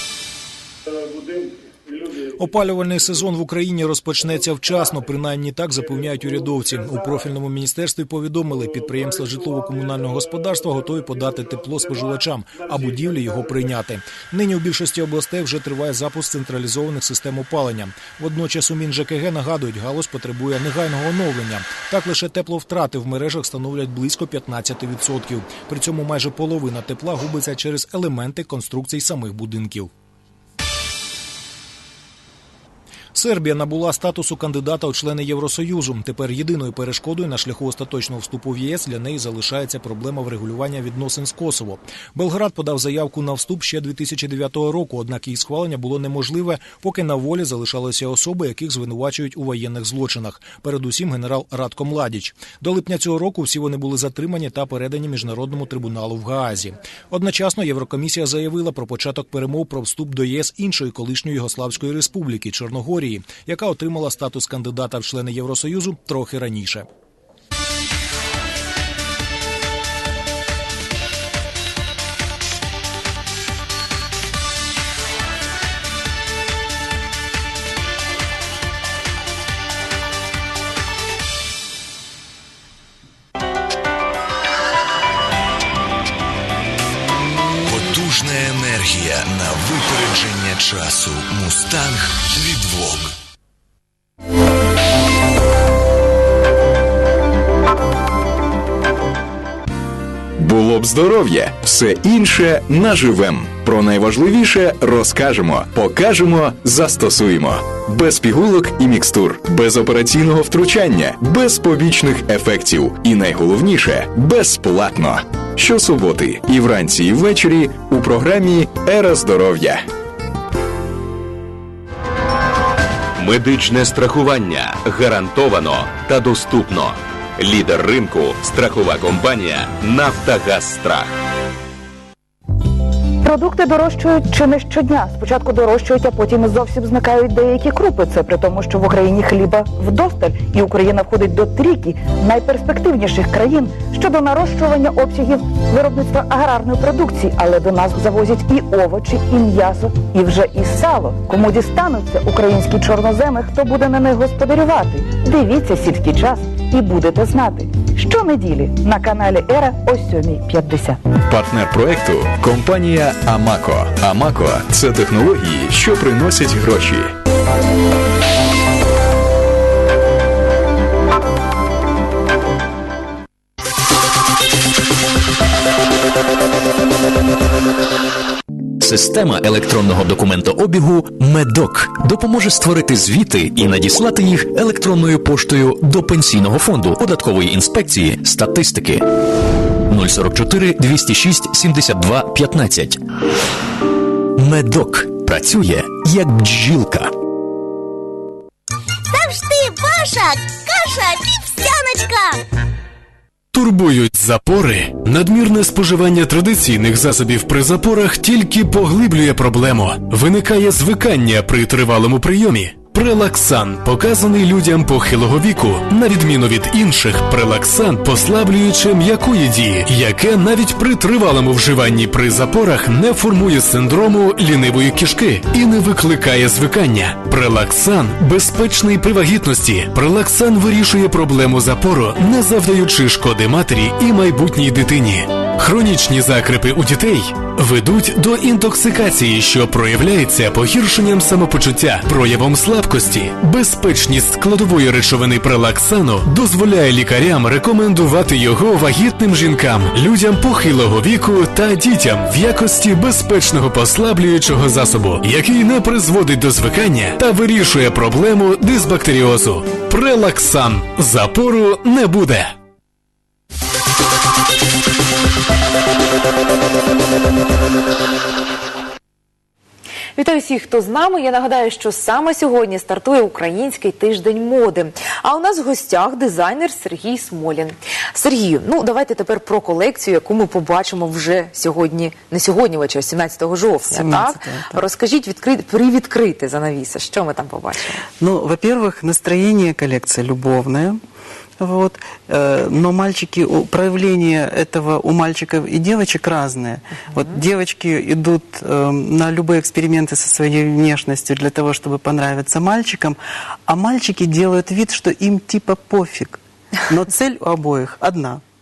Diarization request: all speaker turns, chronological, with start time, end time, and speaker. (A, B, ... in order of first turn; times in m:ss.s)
0:02.4-0:29.9 A
0:33.1-1:06.9 A
1:27.7-1:33.1 B
1:40.4-1:59.8 C
2:03.2-2:11.1 D
2:13.2-2:41.0 E
2:41.3-2:47.1 C
2:58.8-3:09.0 F
3:09.9-3:13.0 F
3:14.4-3:17.1 F
3:19.1-3:22.4 G
3:23.5-4:22.5 H
4:30.2-4:48.0 I
4:43.9-4:44.8 J
4:48.2-4:51.0 J
4:51.6-5:08.4 J
4:57.1-4:57.4 I